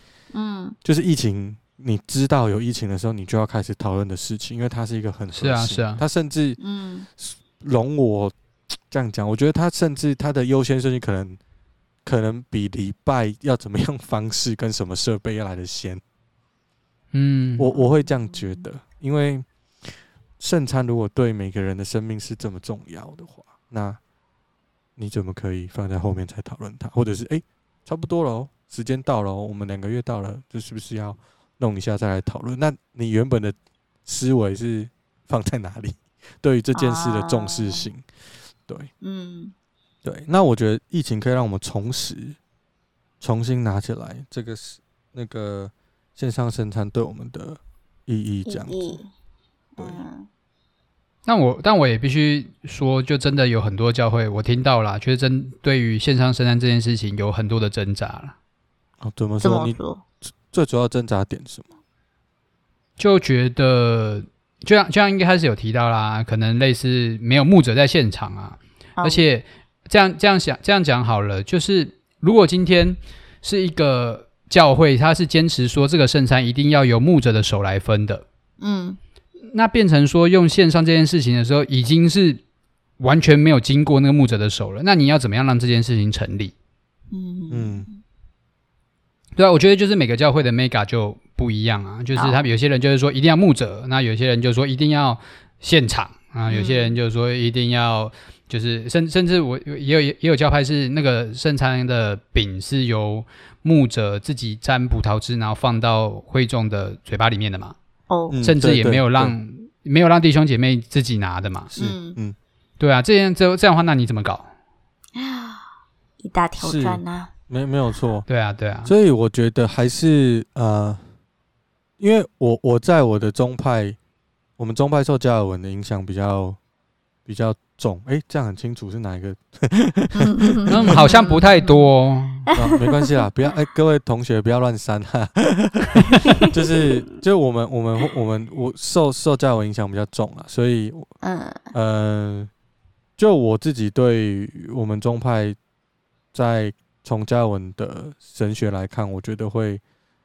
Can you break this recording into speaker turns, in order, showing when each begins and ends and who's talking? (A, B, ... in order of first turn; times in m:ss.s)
0:00.3-0:00.8 A
0:00.8-0:06.6 B
0:05.4-0:06.0 C
0:06.6-0:07.1 A
0:07.2-0:08.3 B
0:08.9-0:11.4 B
0:12.0-0:16.0 B
0:17.1-0:17.7 C
0:17.6-0:24.0 B
0:25.0-0:38.1 B
0:36.8-0:37.9 A
0:39.0-0:39.5 A
0:40.0-0:42.4 B
0:43.2-0:49.0 B
0:48.4-0:49.1 A
0:49.8-0:50.3 A
0:51.3-0:58.3 C
0:59.0-0:59.8 B
0:59.4-1:00.0 A
1:00.5-1:01.7 B
1:03.0-1:18.2 C
1:09.0-1:09.2 A
1:18.6-1:19.0 A
1:19.5-1:22.4 C
1:23.0-1:26.5 C
1:27.1-1:28.0 A
1:27.5-1:27.9 B
1:29.4-1:47.8 C
1:32.1-1:32.4 A
1:36.5-1:37.0 A
1:48.1-1:48.4 A
1:48.3-1:49.3 B
1:48.4-1:51.7 C
1:51.7-1:52.4 B
1:51.8-1:52.2 A
1:52.8-1:54.5 C
1:55.2-1:55.6 A
1:56.2-1:57.3 A
1:56.6-1:58.3 B
1:58.3-1:58.9 C
1:58.8-2:01.0 B
2:02.0-2:04.0 B
2:04.6-2:06.6 B
2:07.3-2:11.1 B
2:10.2-2:11.9 A
2:10.7-2:12.5 C
2:12.5-2:21.1 B
2:21.2-2:21.7 A
2:21.7-2:22.5 B
2:23.2-2:25.6 B
2:26.3-2:29.8 B